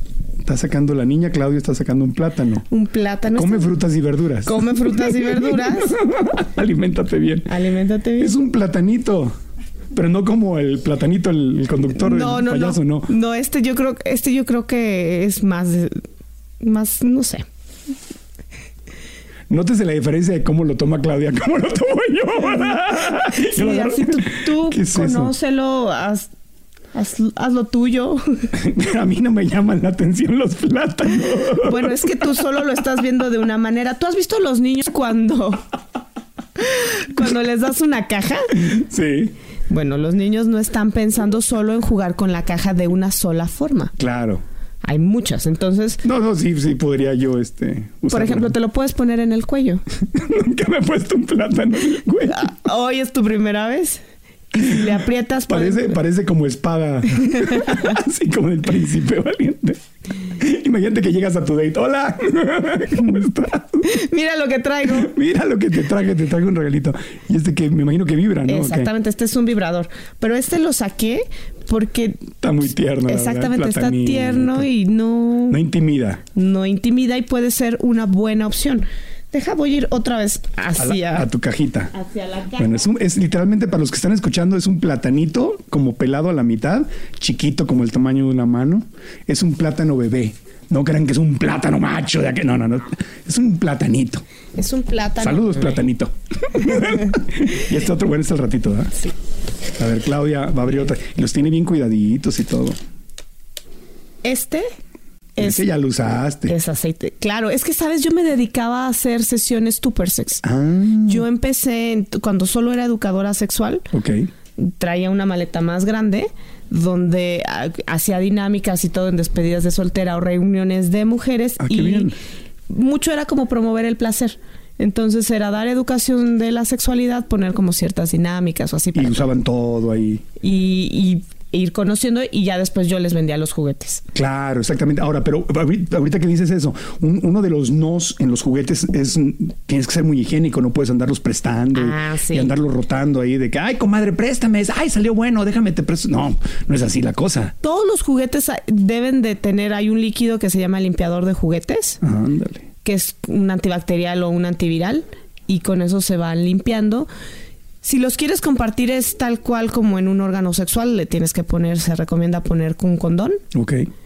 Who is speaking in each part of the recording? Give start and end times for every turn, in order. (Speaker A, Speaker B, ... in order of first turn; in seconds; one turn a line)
Speaker A: 0.4-2.6
Speaker B: 2.7-3.8
Speaker A: 3.3-7.5
Speaker B: 4.4-6.0
Speaker B: 7.5-8.4
Speaker A: 8.2-9.3
Speaker A: 9.9-13.1
Speaker B: 11.9-16.0
Speaker B: 16.6-17.4
Speaker A: 19.5-25.3
Speaker B: 22.5-26.3
Speaker B: 26.9-28.5
Speaker A: 28.5-32.1
Speaker B: 31.6-35.6
Speaker B: 36.6-38.5
Speaker A: 38.5-39.3
Speaker B: 39.7-43.9
Speaker A: 44.0-44.4
Speaker B: 44.8-46.0
Speaker A: 46.0-48.5
Speaker B: 48.1-49.8
Speaker A: 50.1-52.5
Speaker B: 52.3-54.0
Speaker B: 54.5-56.0
Speaker A: 55.5-59.8
Speaker B: 57.3-57.9
Speaker A: 60.4-63.9
Speaker B: 63.8-65.1
Speaker A: 64.9-68.9
Speaker B: 68.5-72.4
Speaker A: 72.4-74.7
Speaker B: 73.0-75.6
Speaker A: 75.5-76.2
Speaker B: 76.3-81.3
Speaker A: 80.8-81.9
Speaker B: 81.9-82.9
Speaker A: 82.6-94.2
Speaker B: 94.5-95.8
Speaker A: 95.2-98.9
Speaker B: 96.7-97.1
Speaker A: 99.8-102.8
Speaker B: 104.2-104.7
Speaker B: 105.4-105.6
Speaker A: 105.4-106.5
Speaker B: 106.5-110.4
Speaker A: 110.4-111.2
Speaker B: 111.0-113.9
Speaker A: 113.9-114.3
Speaker B: 114.6-122.1
Speaker A: 121.6-122.1
Speaker B: 122.7-129.3
Speaker A: 128.9-130.2
Speaker B: 130.4-134.0
Speaker A: 134.1-147.5
Speaker B: 141.7-142.5
Speaker B: 147.6-152.0
Speaker A: 152.0-152.7
Speaker B: 152.8-157.1
Speaker B: 157.8-163.4
Speaker A: 163.5-163.9